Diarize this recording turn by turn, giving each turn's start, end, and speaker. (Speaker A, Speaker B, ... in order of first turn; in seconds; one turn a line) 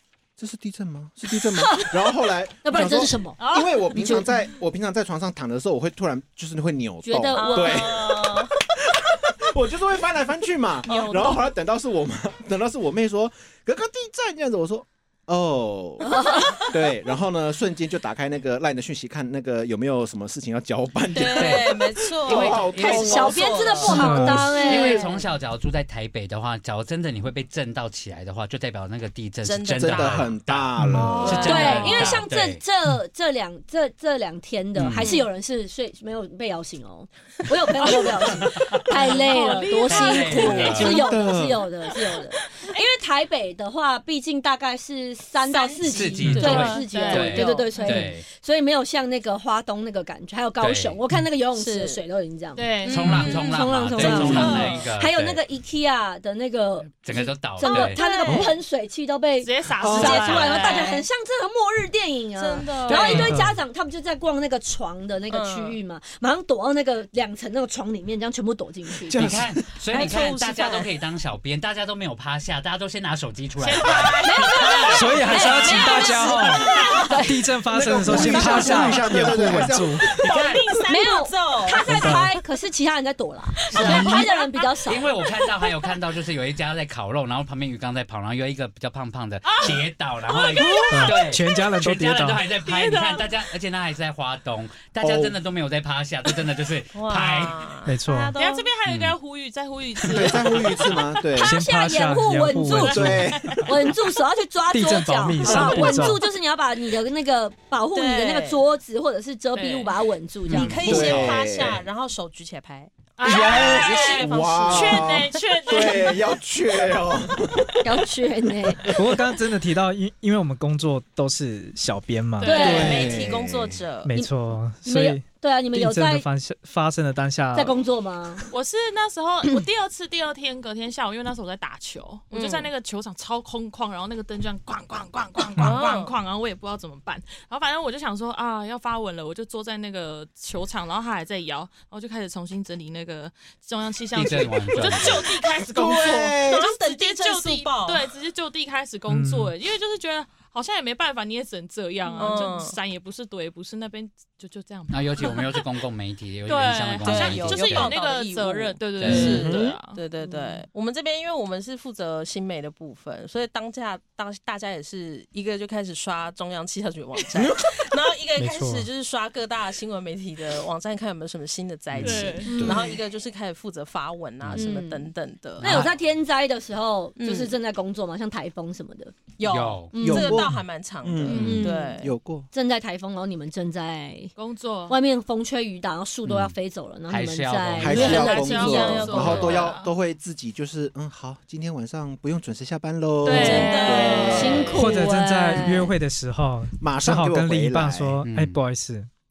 Speaker A: 0.4-16.1
Speaker B: 1.4-2.1
Speaker B: 2.6-4.3
Speaker C: 3.4-3.8
Speaker B: 7.0-7.9
Speaker D: 7.3-8.5
Speaker D: 10.9-11.4
Speaker C: 10.9-11.3
Speaker B: 16.0-16.6
Speaker A: 16.7-24.1
Speaker D: 21.1-25.1
Speaker E: 21.2-21.7
Speaker E: 22.2-32.6
Speaker B: 22.8-25.2
Speaker F: 23.9-24.5
Speaker D: 29.4-30.4
Speaker A: 29.8-31.8
Speaker F: 30.8-31.3
Speaker D: 31.0-32.1
Speaker C: 31.2-31.9
Speaker B: 31.4-69.3
Speaker E: 34.8-35.1
Speaker C: 37.8-41.1
Speaker E: 38.4-39.0
Speaker E: 39.9-41.1
Speaker A: 40.7-41.7
Speaker C: 42.5-42.8
Speaker D: 45.4-48.0
Speaker E: 45.9-48.2
Speaker F: 46.2-46.6
Speaker C: 46.4-48.1
Speaker E: 50.6-51.0
Speaker D: 51.5-52.0
Speaker C: 52.6-53.2
Speaker D: 52.8-54.9
Speaker E: 52.9-55.4
Speaker E: 57.0-58.0
Speaker D: 57.6-58.6
Speaker C: 57.7-58.2
Speaker C: 59.4-60.9
Speaker A: 59.8-60.4
Speaker D: 59.9-61.0
Speaker D: 62.4-63.4
Speaker F: 63.0-63.6
Speaker D: 65.3-65.8
Speaker A: 69.0-69.7
Speaker E: 69.1-75.8
Speaker D: 69.9-70.9
Speaker C: 73.6-77.3
Speaker D: 74.0-77.2
Speaker B: 74.2-77.4
Speaker F: 74.9-80.1
Speaker A: 77.7-80.4
Speaker D: 78.1-79.2
Speaker B: 78.1-78.8
Speaker C: 78.4-78.8
Speaker D: 80.1-82.1
Speaker E: 80.2-80.7
Speaker B: 80.9-85.1
Speaker F: 81.9-82.3
Speaker D: 83.7-84.3
Speaker E: 83.7-84.2
Speaker C: 83.8-84.2
Speaker A: 83.9-84.2
Speaker E: 84.9-97.7
Speaker C: 89.5-91.3
Speaker F: 90.9-92.4
Speaker C: 92.6-93.3
Speaker A: 95.0-95.4
Speaker D: 96.9-98.7
Speaker F: 97.9-98.3
Speaker C: 98.3-101.2
Speaker E: 98.9-99.2
Speaker A: 100.1-101.6
Speaker B: 101.4-110.9
Speaker F: 101.4-103.3
Speaker C: 102.6-103.7
Speaker A: 102.9-103.6
Speaker F: 104.7-106.2
Speaker D: 105.4-106.2
Speaker D: 107.9-108.6
Speaker C: 109.5-110.0
Speaker E: 110.5-111.7
Speaker D: 110.5-116.1
Speaker A: 110.6-111.8
Speaker C: 113.2-116.2
Speaker A: 113.2-118.0
Speaker B: 117.8-119.0
Speaker A: 118.7-119.2
Speaker F: 119.0-122.7
Speaker C: 122.4-123.2
Speaker B: 122.4-123.1
Speaker D: 122.5-124.1
Speaker A: 122.5-123.8
Speaker F: 124.0-127.8
Speaker B: 124.8-126.2
Speaker B: 127.5-128.5
Speaker C: 128.5-155.7
Speaker D: 132.3-132.7
Speaker D: 135.5-136.2
Speaker E: 144.1-145.3
Speaker D: 145.6-148.1
Speaker A: 145.7-146.7
Speaker F: 149.1-149.5
Speaker D: 152.1-152.8
Speaker E: 154.9-158.0
Speaker C: 156.5-160.0
Speaker D: 157.0-175.9
Speaker E: 159.0-159.5
Speaker A: 159.1-159.8
Speaker A: 167.4-167.8
Speaker F: 168.4-168.9
Speaker E: 171.9-172.3
Speaker C: 172.0-172.8
Speaker B: 172.4-172.8
Speaker A: 172.6-172.9
Speaker B: 174.6-179.2
Speaker E: 175.6-175.9
Speaker D: 177.2-177.5
Speaker D: 179.4-182.1
Speaker E: 179.4-179.9
Speaker B: 179.9-180.4
Speaker A: 180.0-182.5
Speaker E: 181.3-181.7
Speaker B: 181.4-181.9
Speaker B: 182.5-184.3
Speaker C: 184.4-185.0
Speaker B: 184.9-189.1
Speaker E: 186.3-186.6
Speaker E: 187.1-188.2
Speaker A: 187.8-194.8
Speaker C: 187.8-189.9
Speaker D: 188.0-189.7
Speaker C: 193.2-194.8
Speaker D: 193.3-194.8
Speaker B: 193.4-195.9
Speaker F: 194.7-199.1
Speaker A: 196.8-198.2
Speaker E: 198.2-198.6